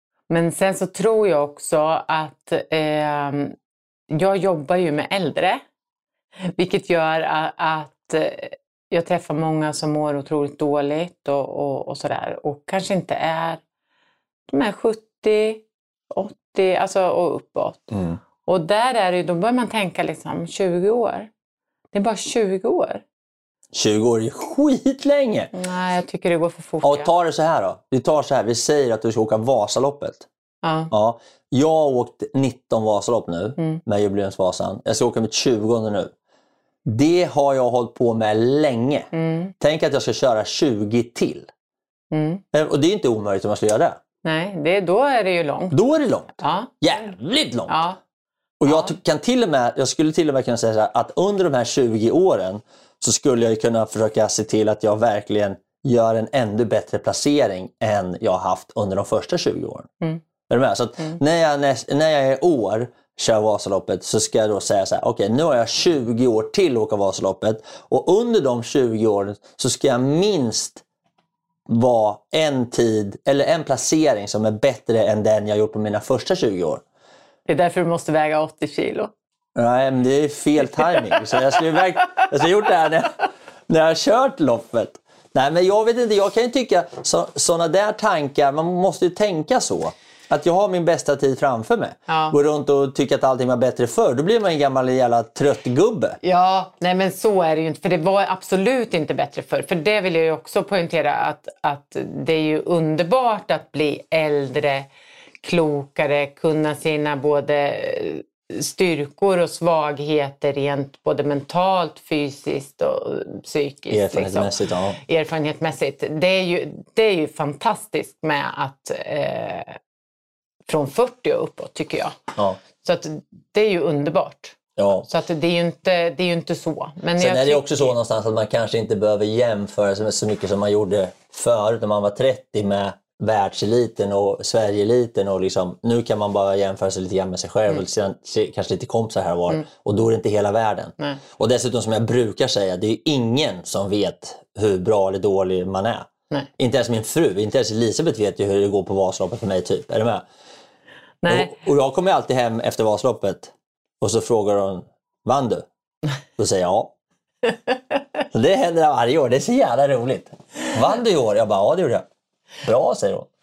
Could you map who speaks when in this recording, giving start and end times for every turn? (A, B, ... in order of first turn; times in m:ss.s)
0:00.3-0:03.6 A
0:04.1-0:05.6 A
0:06.4-0:13.6 A
0:14.5-0:17.9 A
0:17.9-0:18.2 B
0:18.4-0:21.3 A
0:21.9-0:23.0 A
0:23.7-0:25.5 B
0:25.5-0:27.1 A
0:26.8-0:30.2 B
0:30.6-0:30.9 A
0:30.9-0:36.1 B
0:36.8-0:41.5 B
0:39.1-0:39.5 A
0:42.1-0:42.4 A
0:42.5-0:44.0 B
0:44.2-0:47.0 A
0:45.7-0:47.8 B
0:47.7-0:48.0 A
0:48.6-0:59.9 B
0:48.6-0:48.9 A
1:00.5-1:10.8 B
1:11.7-1:16.8 B
1:17.4-1:19.1 A
1:19.6-1:36.2 B
1:20.8-1:21.4 A
1:32.1-1:32.4 A
1:36.2-1:44.9 A
1:45.4-1:54.5 A
1:53.9-1:55.0 B
1:55.0-1:59.8 A
2:00.6-2:02.2 A
2:02.8-2:07.9 A
2:04.8-2:05.1 B
2:07.2-2:30.2 B
2:31.2-2:31.5 A
2:31.3-2:35.6 B
2:36.4-2:36.9 B
2:38.3-2:42.1 B
2:42.6-2:43.3 B